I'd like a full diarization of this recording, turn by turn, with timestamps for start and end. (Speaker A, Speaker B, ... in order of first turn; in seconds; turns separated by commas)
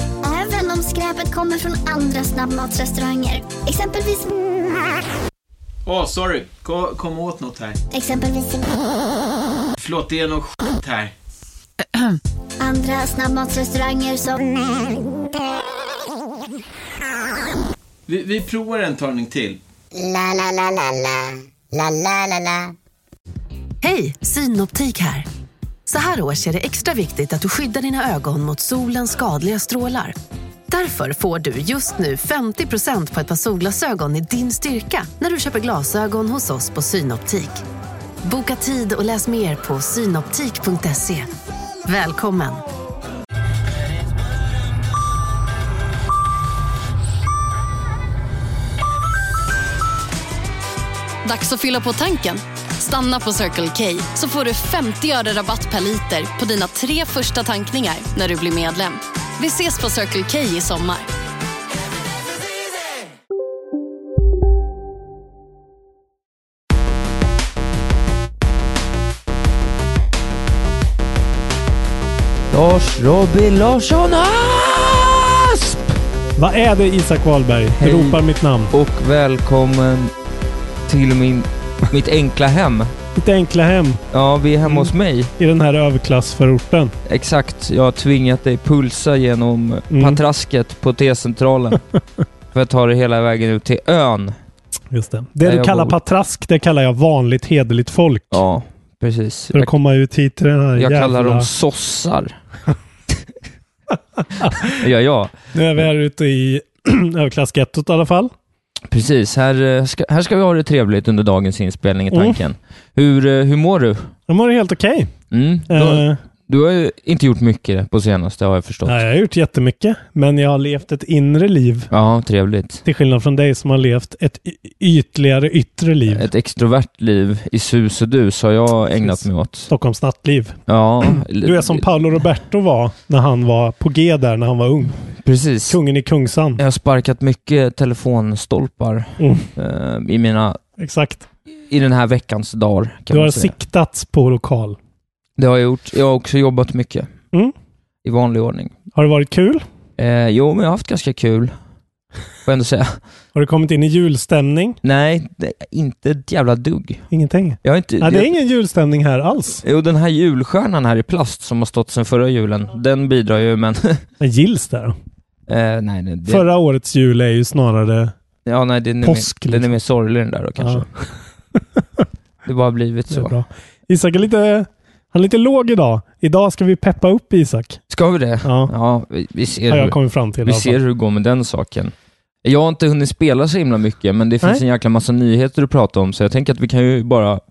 Speaker A: 0.2-4.3, Speaker B: 5.8-7.8, Speaker A: 7.9-8.9, Speaker B: 9.8-11.1, Speaker A: 12.6-15.0, Speaker B: 18.1-19.6, Speaker C: 19.9-22.7, Speaker D: 23.8-25.2, Speaker D: 25.9-30.1, Speaker D: 30.7-37.6, Speaker D: 38.2-41.3, Speaker D: 41.9-42.6, Speaker E: 51.2-61.1, Speaker F: 72.5-75.9, Speaker G: 76.4-78.7, Speaker F: 77.8-80.1, Speaker F: 80.8-82.9, Speaker G: 83.2-84.0, Speaker F: 84.1-85.3, Speaker G: 84.6-86.9, Speaker F: 87.0-91.8, Speaker G: 89.9-90.2, Speaker F: 92.5-94.3, Speaker G: 94.9-98.4, Speaker F: 95.4-96.0, Speaker F: 98.3-99.7, Speaker G: 99.5-101.5, Speaker F: 100.8-102.3, Speaker G: 104.4-104.8, Speaker F: 104.5-105.3, Speaker G: 105.5-108.3, Speaker F: 108.9-114.1, Speaker G: 112.1-112.4, Speaker G: 114.3-115.1, Speaker F: 115.3-119.0, Speaker G: 115.7-116.2, Speaker G: 118.8-121.9, Speaker F: 121.9-122.8, Speaker G: 122.8-126.3, Speaker F: 126.1-129.7, Speaker G: 129.0-130.6, Speaker F: 130.7-131.9, Speaker G: 131.1-135.0, Speaker F: 135.2-135.8, Speaker G: 135.7-136.6, Speaker F: 136.6-140.6, Speaker G: 139.2-139.5, Speaker G: 140.8-141.3, Speaker F: 141.7-143.5, Speaker G: 143.1-144.8, Speaker F: 145.4-147.1, Speaker F: 148.0-148.7, Speaker G: 148.9-149.6, Speaker F: 150.0-151.5, Speaker F: 152.4-153.0, Speaker G: 153.3-154.8, Speaker F: 154.8-157.0, Speaker G: 157.1-159.6, Speaker F: 157.6-158.3, Speaker F: 159.6-164.0, Speaker G: 164.2-164.9, Speaker F: 165.5-166.4, Speaker G: 166.3-168.1, Speaker F: 168.4-170.9, Speaker G: 169.0-169.7, Speaker G: 170.6-170.9, Speaker G: 171.8-172.0, Speaker F: 172.4-173.3, Speaker G: 173.1-177.8, Speaker F: 177.9-187.4, Speaker G: 178.4-178.7, Speaker G: 179.7-180.8